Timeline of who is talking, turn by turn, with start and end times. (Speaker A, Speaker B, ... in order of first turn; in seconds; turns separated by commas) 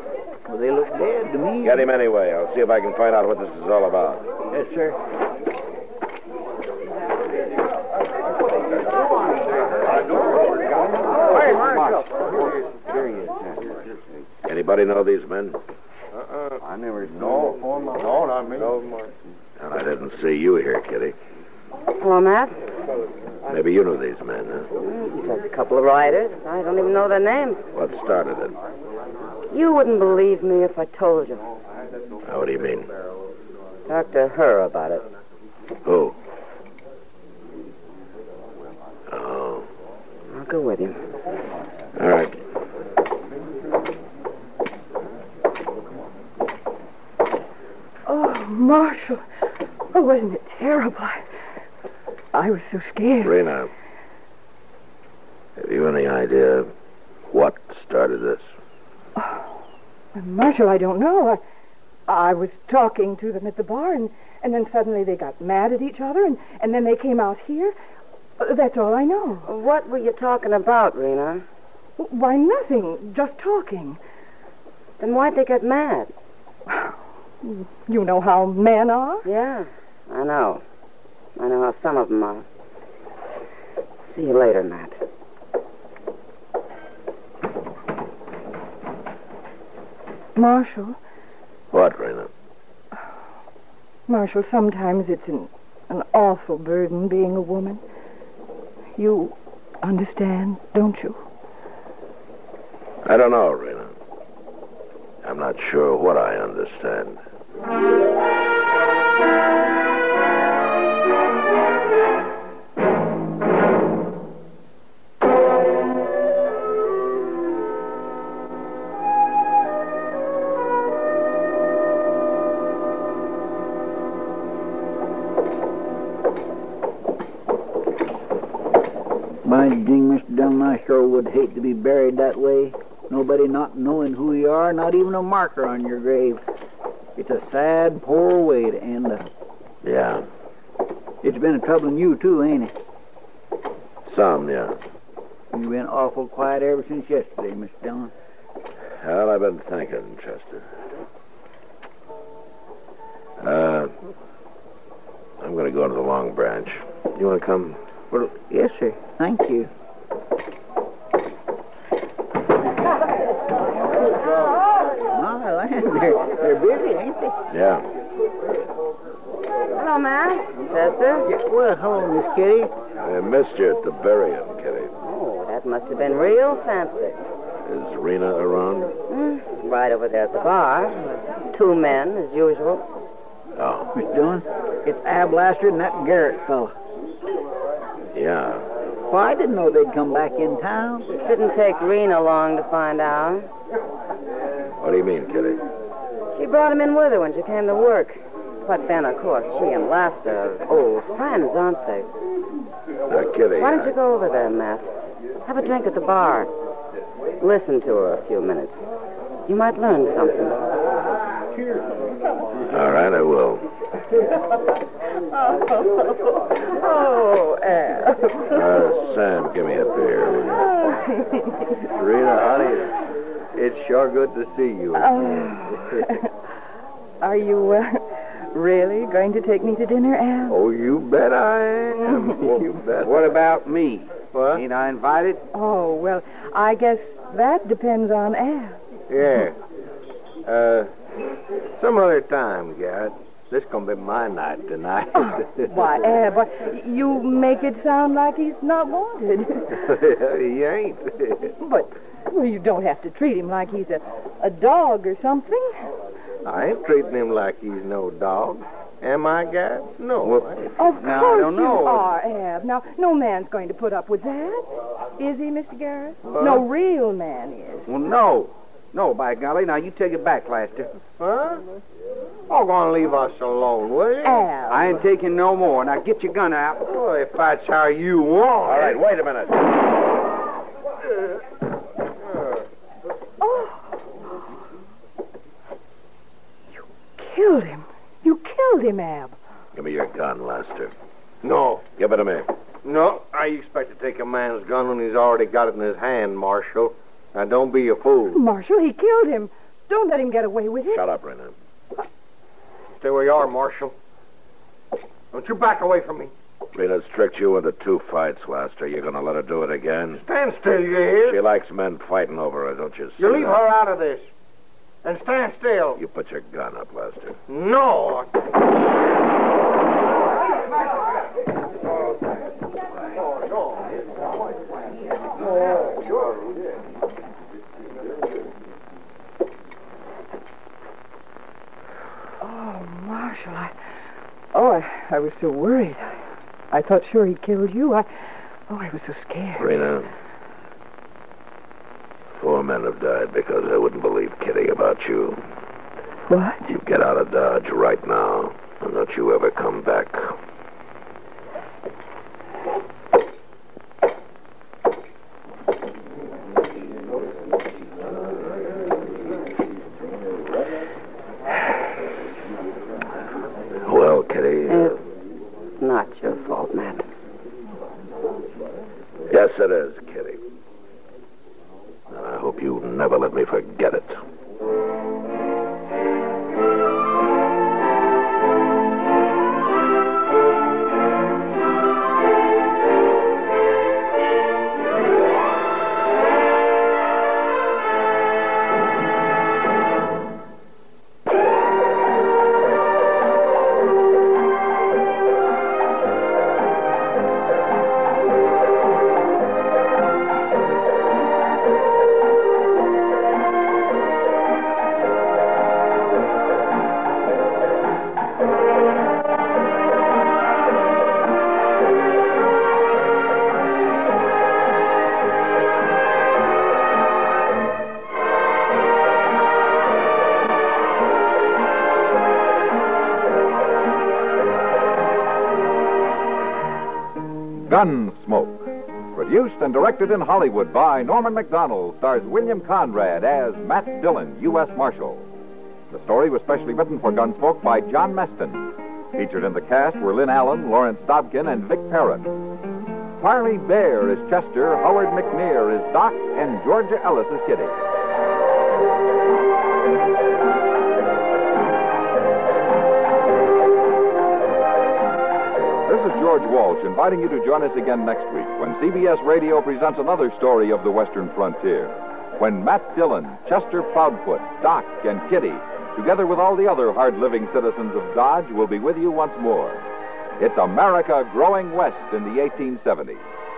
Speaker A: 0.5-1.9, Speaker B: 1.6-4.3, Speaker A: 4.5-5.0, Speaker C: 11.4-13.5, Speaker B: 14.4-15.6, Speaker C: 16.7-18.0, Speaker B: 19.6-21.2, Speaker D: 22.0-22.6, Speaker B: 23.5-24.7, Speaker D: 24.8-27.6, Speaker B: 27.7-28.6, Speaker D: 29.5-31.5, Speaker B: 32.3-32.9, Speaker D: 33.9-35.0, Speaker B: 35.9-36.1, Speaker B: 39.1-39.7, Speaker D: 40.3-41.0, Speaker B: 42.0-42.4, Speaker E: 48.1-49.2, Speaker E: 49.9-51.2, Speaker E: 52.3-53.4, Speaker B: 53.2-53.7, Speaker B: 55.6-56.7, Speaker B: 57.3-58.4, Speaker E: 60.1-61.4, Speaker E: 62.1-67.8, Speaker E: 68.4-69.5, Speaker D: 69.5-71.5, Speaker E: 72.0-74.0, Speaker D: 75.0-76.1, Speaker E: 77.4-79.3, Speaker D: 79.3-80.6, Speaker D: 81.4-82.5, Speaker D: 84.1-85.0, Speaker E: 90.4-91.0, Speaker B: 91.7-92.3, Speaker E: 94.1-97.8, Speaker E: 99.0-101.2, Speaker B: 103.0-104.0, Speaker B: 105.2-107.2, Speaker A: 129.4-136.4, Speaker A: 137.2-139.3, Speaker B: 139.8-140.2, Speaker A: 141.2-142.7, Speaker B: 144.1-144.8, Speaker A: 145.5-148.1, Speaker B: 149.0-150.7, Speaker B: 153.4-153.9, Speaker B: 155.4-157.8, Speaker A: 158.1-159.7, Speaker A: 165.1-167.3, Speaker B: 167.5-167.8, Speaker D: 169.7-171.3, Speaker A: 171.3-172.7, Speaker B: 173.0-174.9, Speaker D: 175.0-177.3, Speaker B: 177.7-178.9, Speaker D: 179.1-182.9, Speaker B: 183.6-183.9, Speaker A: 183.9-186.8, Speaker B: 188.1-188.7, Speaker A: 189.1-191.1, Speaker D: 191.2-193.5, Speaker B: 194.8-195.6, Speaker D: 196.3-202.1, Speaker B: 203.1-204.0, Speaker D: 203.6-204.9, Speaker D: 205.5-206.6, Speaker D: 207.4-208.8, Speaker D: 209.5-210.6, Speaker B: 212.7-213.7, Speaker E: 216.7-218.3, Speaker B: 218.5-220.7, Speaker F: 221.9-222.9, Speaker F: 223.5-226.1, Speaker E: 224.9-226.3, Speaker E: 227.2-230.6, Speaker F: 230.5-233.4, Speaker C: 233.0-235.5, Speaker F: 234.3-234.6, Speaker E: 235.5-238.8, Speaker F: 239.1-239.6, Speaker F: 240.4-240.9, Speaker F: 241.8-246.0, Speaker E: 245.6-249.8, Speaker F: 249.7-251.5, Speaker E: 251.6-255.9, Speaker F: 256.4-260.7, Speaker C: 260.2-262.2, Speaker E: 260.8-267.9, Speaker F: 266.3-266.7, Speaker C: 267.9-271.0, Speaker F: 271.2-271.6, Speaker F: 272.5-274.5, Speaker E: 274.2-274.9, Speaker C: 274.7-276.9, Speaker F: 276.9-279.0, Speaker B: 278.6-279.7, Speaker E: 283.4-283.9, Speaker E: 287.2-289.4, Speaker B: 289.7-290.9, Speaker F: 291.4-291.9, Speaker B: 291.9-292.5, Speaker F: 292.8-298.4, Speaker E: 298.3-301.0, Speaker B: 300.9-301.6, Speaker F: 303.0-303.9, Speaker F: 305.3-306.3, Speaker B: 306.7-310.2, Speaker F: 310.1-311.4, Speaker B: 311.2-313.6, Speaker F: 313.2-314.3, Speaker F: 315.0-316.0, Speaker B: 316.0-317.4, Speaker F: 317.5-318.3, Speaker E: 332.4-333.7, Speaker E: 334.5-336.2, Speaker E: 336.7-338.1, Speaker E: 338.7-339.7, Speaker B: 339.6-340.1, Speaker B: 342.4-345.4, Speaker E: 346.3-346.7, Speaker B: 346.7-350.3, Speaker B: 363.8-365.0, Speaker D: 364.7-365.0, Speaker D: 365.8-367.1, Speaker B: 369.3-370.4, Speaker B: 372.1-374.2, Speaker G: 427.7-435.3, Speaker G: 435.9-442.3, Speaker G: 443.2-447.8, Speaker G: 455.9-469.8, Speaker G: 470.4-473.2